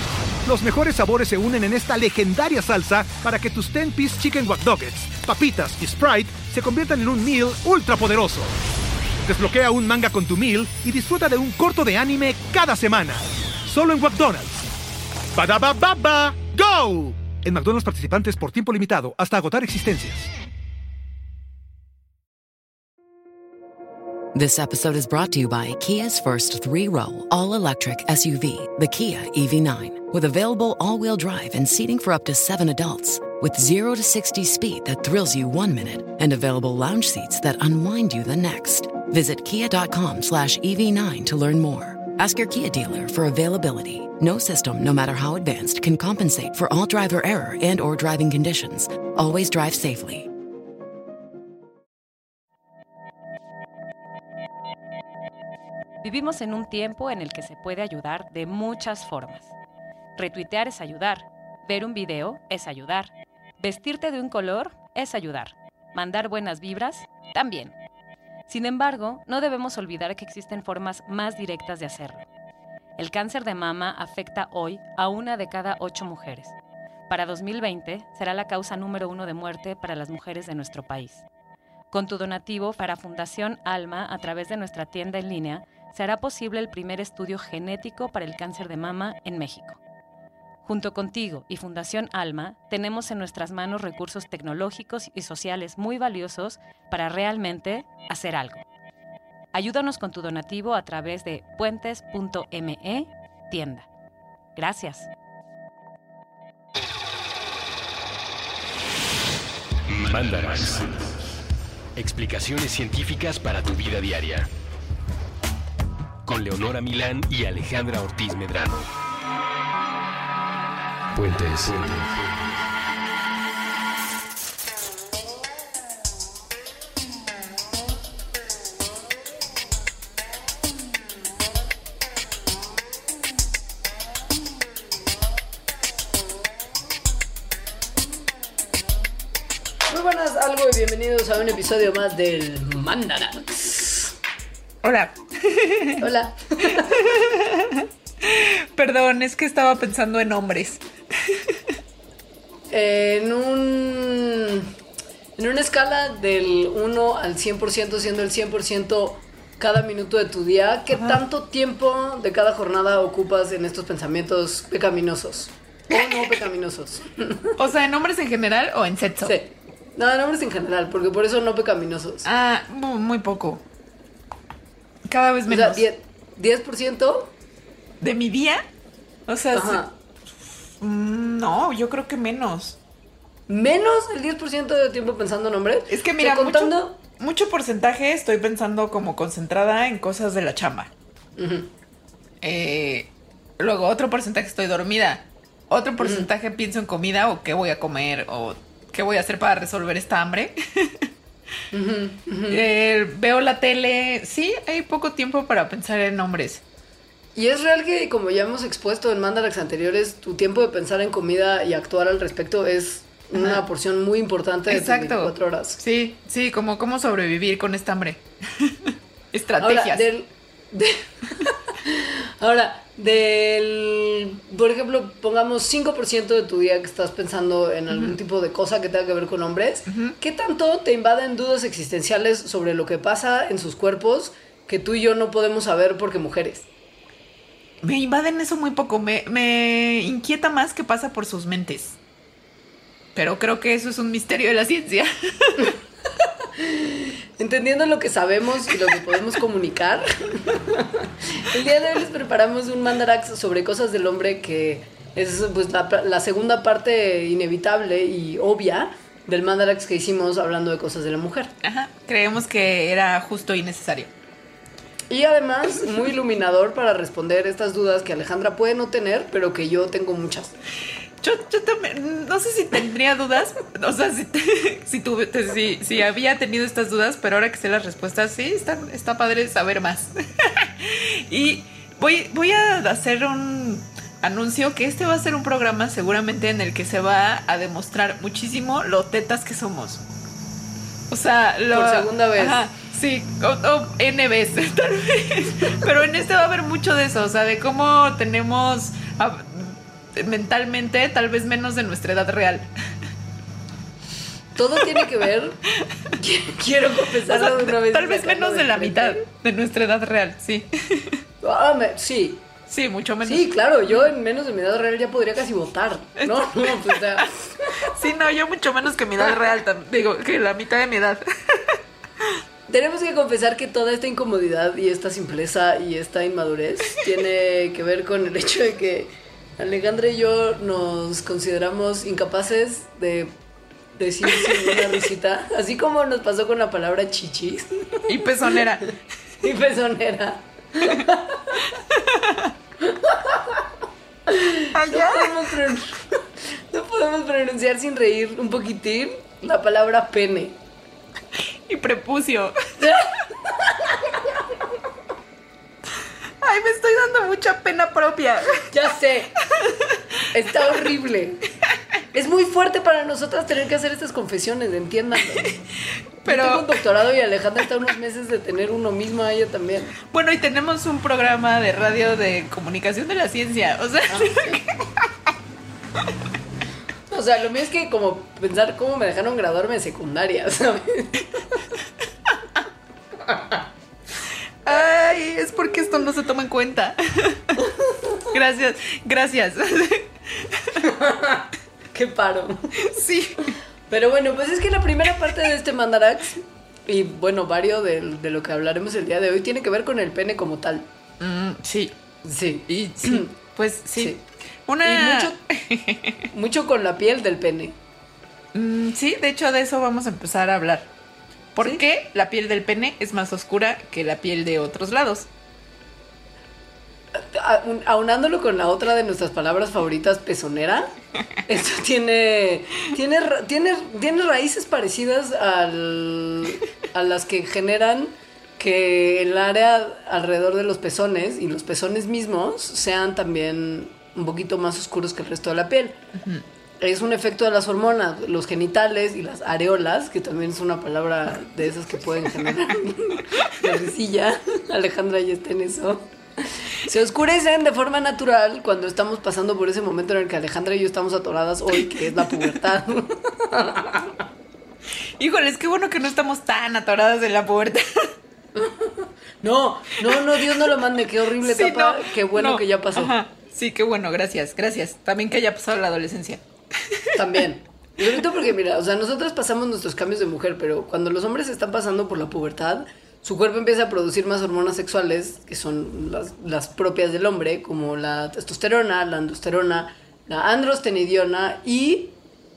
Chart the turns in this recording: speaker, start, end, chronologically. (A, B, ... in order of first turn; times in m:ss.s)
0:00.4-0:08.5 A
0:09.2-0:14.6 A
0:15.3-0:20.3 A
0:24.3-0:50.3 B
0:56.0-0:59.5 C
1:00.2-1:07.7 C
1:08.5-1:12.2 C
1:13.0-1:16.5 C
1:17.1-1:21.2 C
1:21.9-1:29.8 C
1:30.6-1:38.6 C
1:39.5-1:43.9 C
1:44.6-1:45.1 C
1:49.9-1:51.1 D
1:52.0-1:54.5 D
1:56.2-1:58.9 D
2:01.1-2:02.5 D
2:19.9-2:24.1 E
2:24.8-2:26.0 F
2:26.0-2:27.0 E
2:26.7-2:31.6 F
2:32.7-2:34.7 E
2:35.4-2:47.6 E
2:40.9-2:41.2 F
2:45.9-2:46.4 F
2:47.6-2:49.4 F
2:49.2-2:52.2 E
2:52.2-2:53.6 F
2:55.1-2:55.8 F
2:55.5-2:57.3 E
2:58.0-2:58.6 F
2:59.3-2:59.8 F
2:59.5-2:59.9 E
3:00.8-3:02.8 F
3:03.5-3:07.0 E
3:05.9-3:10.9 F
3:11.4-3:11.7 E
3:12.4-3:21.1 F
3:16.0-3:16.3 E
3:21.7-3:22.6 E
3:22.5-3:26.6 F
3:27.4-3:35.8 E
3:33.4-3:33.6 F
3:34.7-3:40.0 F
3:39.6-3:56.7 E
3:47.9-3:48.2 F
3:49.9-3:50.1 F
3:57.8-4:02.0 F
4:03.1-4:05.7 F
4:06.2-4:21.5 E
4:21.6-4:24.1 F
4:25.1-4:30.5 E
4:31.2-4:50.0 F
4:51.1-5:02.7 F
4:51.7-4:52.6 E
5:04.5-5:05.6 E
5:06.1-5:09.2 E
5:07.2-5:11.2 F
5:11.4-5:12.4 E
5:12.7-5:14.0 F
5:13.2-5:17.9 E
5:16.2-5:17.3 F
5:17.8-5:22.3 F
5:22.7-5:33.3 E
5:34.0-5:38.1 E
5:34.4-5:34.9 F
5:38.1-5:38.9 F
5:39.4-5:41.6 E
5:41.9-5:42.5 F
5:42.8-5:43.6 E
5:44.3-5:50.6 E
5:44.7-5:45.5 F
5:51.4-5:52.6 F
5:52.8-5:54.2 E
5:56.4-5:58.6 F
5:58.7-5:59.3 E
5:59.6-6:00.0 F
6:00.3-6:01.4 E
6:02.1-6:05.6 E
6:06.2-6:06.8 F
6:06.2-6:09.9 E
6:10.0-6:15.1 F
6:14.1-6:14.6 E
6:17.1-6:21.6 E
6:23.2-6:23.6 E
6:24.6-6:27.6 F
6:27.6-6:28.3 E
6:28.3-6:30.8 F
6:30.8-6:32.8 E
6:32.8-6:33.5 F
6:33.9-6:40.9 E
6:41.2-6:41.9 F
6:42.2-6:43.3 E
6:42.7-6:46.3 F
6:44.0-6:44.2 E
6:44.8-6:45.4 E
6:46.3-6:47.8 E
6:48.5-6:50.9 F
6:51.5-6:55.3 F
6:57.1-7:00.9 E
7:01.4-7:16.0 E
7:16.1-7:16.4 F
7:16.8-7:34.1 E
7:35.2-7:38.1 F
7:38.5-7:43.1 E
7:40.1-7:40.6 F
7:41.4-7:47.1 F
7:47.1-8:02.1 E